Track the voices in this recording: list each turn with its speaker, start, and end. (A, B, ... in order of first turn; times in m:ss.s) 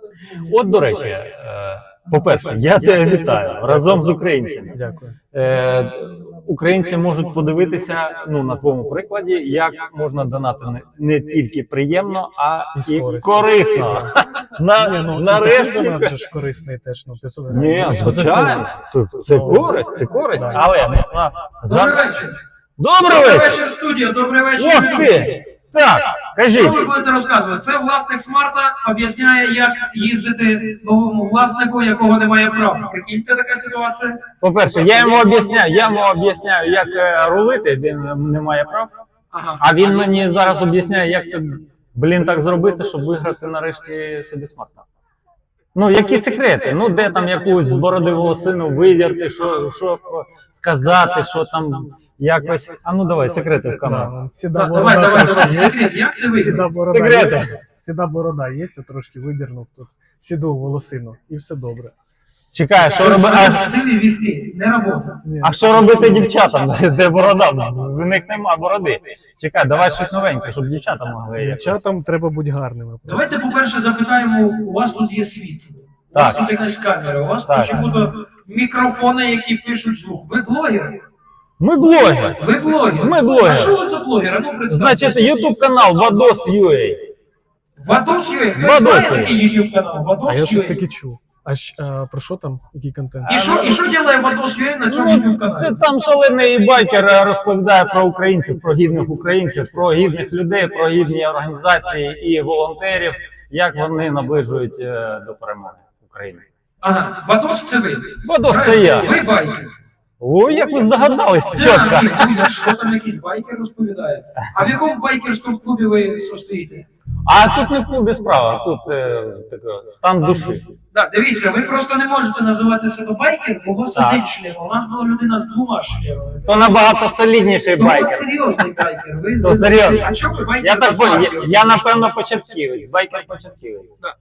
0:00.4-0:04.7 A
0:04.7-0:05.2 B
0:05.3-0:16.2 A
0:12.7-0:14.1 B
0:14.6-0:20.7 B
0:17.5-0:22.0 A
0:21.6-0:22.4 C
0:22.8-0:23.6 A
0:23.0-0:25.4 C
0:24.6-0:26.9 A
0:26.5-0:34.2 C
0:34.4-0:38.9 A
0:34.9-0:35.2 C
0:39.3-0:40.0 C
0:39.6-0:44.9 A
0:45.8-0:54.1 A
0:53.8-1:01.9 B
0:54.6-0:56.6 C
0:56.9-0:57.5 A
1:02.5-1:03.8 A
1:02.9-1:05.2 C
1:05.2-1:06.2 B
1:05.4-1:11.8 A
1:11.4-1:13.4 B
1:13.0-1:21.0 C
1:16.1-1:16.5 A
1:17.5-1:17.8 A
1:21.6-1:23.8 A
1:22.3-1:25.4 C
1:24.7-1:27.1 A
1:27.8-1:30.8 C
1:28.6-1:29.4 A
1:30.2-1:33.5 B
1:33.3-1:35.8 C
1:33.3-1:33.8 A
1:34.9-1:46.5 A
1:46.8-1:49.7 C
1:48.2-1:49.2 A
1:50.2-1:52.4 A
1:51.5-1:56.9 C
1:57.2-2:00.7 A
2:00.9-2:06.9 C
2:03.9-2:04.2 A
2:06.4-2:08.3 A
2:07.7-2:11.8 C
2:09.4-2:14.0 A